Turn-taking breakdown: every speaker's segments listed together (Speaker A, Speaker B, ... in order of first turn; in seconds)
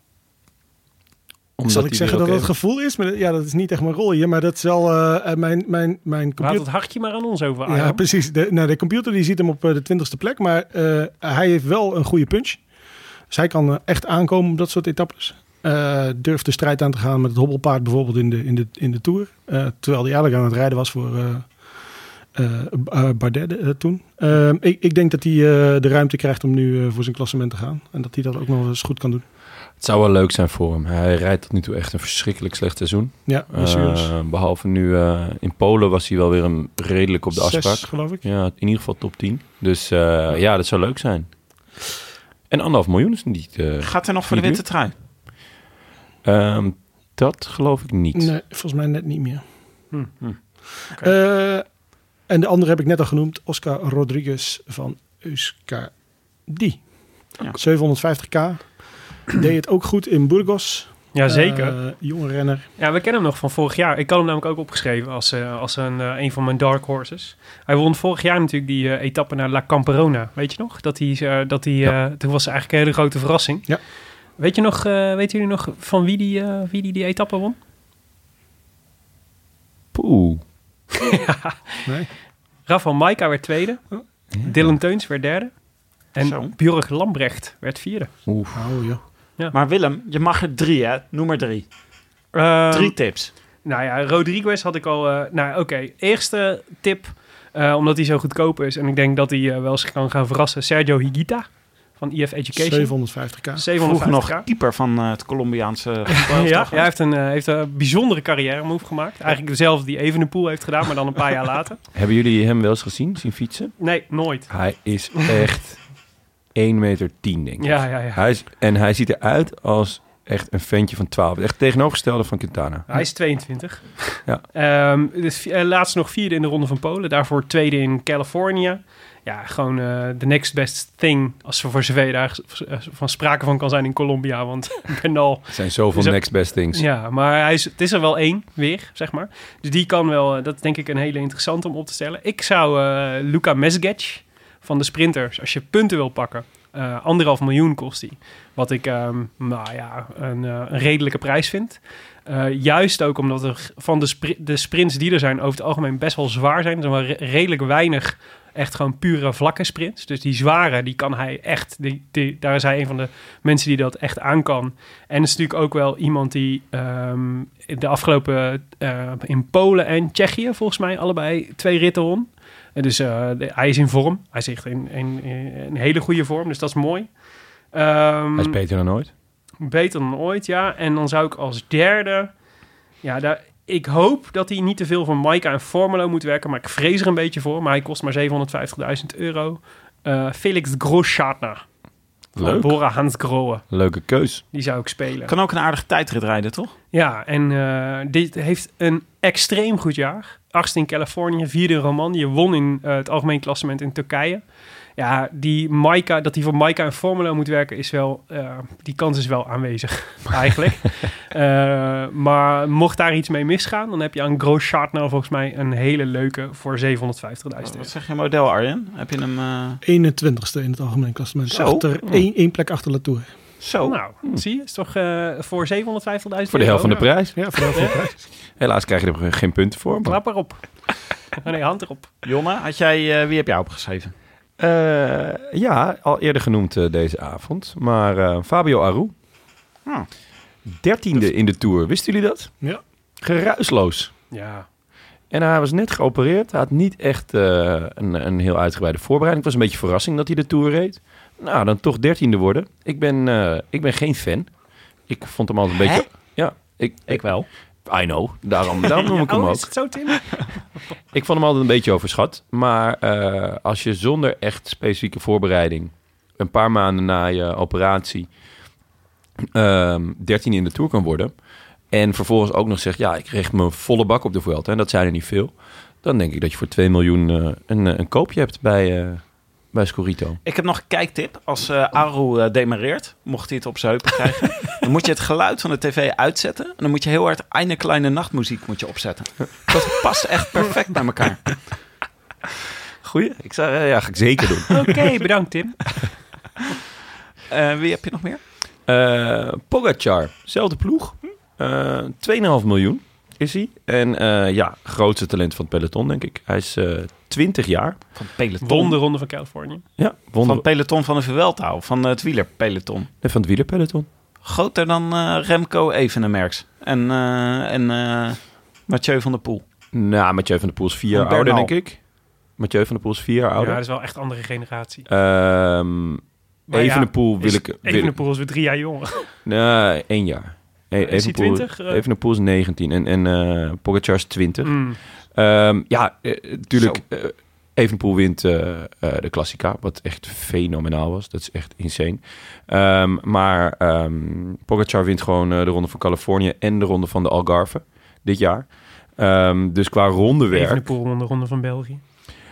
Speaker A: 1.6-2.5, 29.8-41.3, 42.5-44.6, 46.2-48.3, 79.9-80.4, 88.3-88.7, 111.9-113.9, 114.5-116.0, 116.5-123.0, 135.5-136.8, 178.4-179.1, 192.4-192.8, 193.7-194.4, 226.5-227.4, 228.6-230.2, 234.6-239.1, 240.7-242.5, 243.2-244.1, 245.3-254.5, 255.1-259.7, 261.1-268.3, 269.5-271.3, 271.9-280.4, 293.0-295.0, 298.9-308.0, 310.0-310.6, 313.2-314.1, 319.9-322.0, 322.6-323.8, 325.1-328.2, 329.4-350.9
Speaker B: 1.7-6.7, 7.7-12.6, 13.3-21.6, 22.3-29.2, 33.2-34.1, 37.3-38.2, 48.1-49.4, 51.0-51.6, 52.3-55.9, 56.5-56.9, 57.4-62.6, 83.9-84.5, 88.5-89.0, 102.5-103.7, 219.8-223.3, 226.8-228.2
Speaker C: 6.4-8.0, 61.1-61.8, 62.8-73.8, 74.4-77.6, 81.0-81.9, 82.7-85.6, 86.1-88.1, 92.3-93.0, 93.6-104.5, 106.2-111.8, 113.8-114.7, 117.6-118.2, 122.9-177.1, 177.7-178.6, 179.6-182.3, 183.0-191.7, 192.4-193.7, 194.5-195.3, 196.9-204.4, 205.0-217.9, 223.8-227.0, 227.5-228.0, 230.0-232.1, 244.3-244.7, 258.9-260.6, 294.7-295.9, 308.6-309.8, 323.6-325.1, 326.7-329.3, 331.0-332.0, 334.6-335.0, 350.5-352.0
Speaker D: 43.8-44.9, 86.2-86.5, 89.5-91.7, 92.7-93.3, 103.8-106.9, 195.3-196.7, 217.7-219.8, 221.5-221.9, 223.6-224.0, 232.2-234.1, 255.8-256.1, 257.1-257.5, 280.4-291.6, 297.5-298.4, 308.1-309.0, 310.4-313.1, 314.4-319.6, 321.1-321.7, 336.7-337.0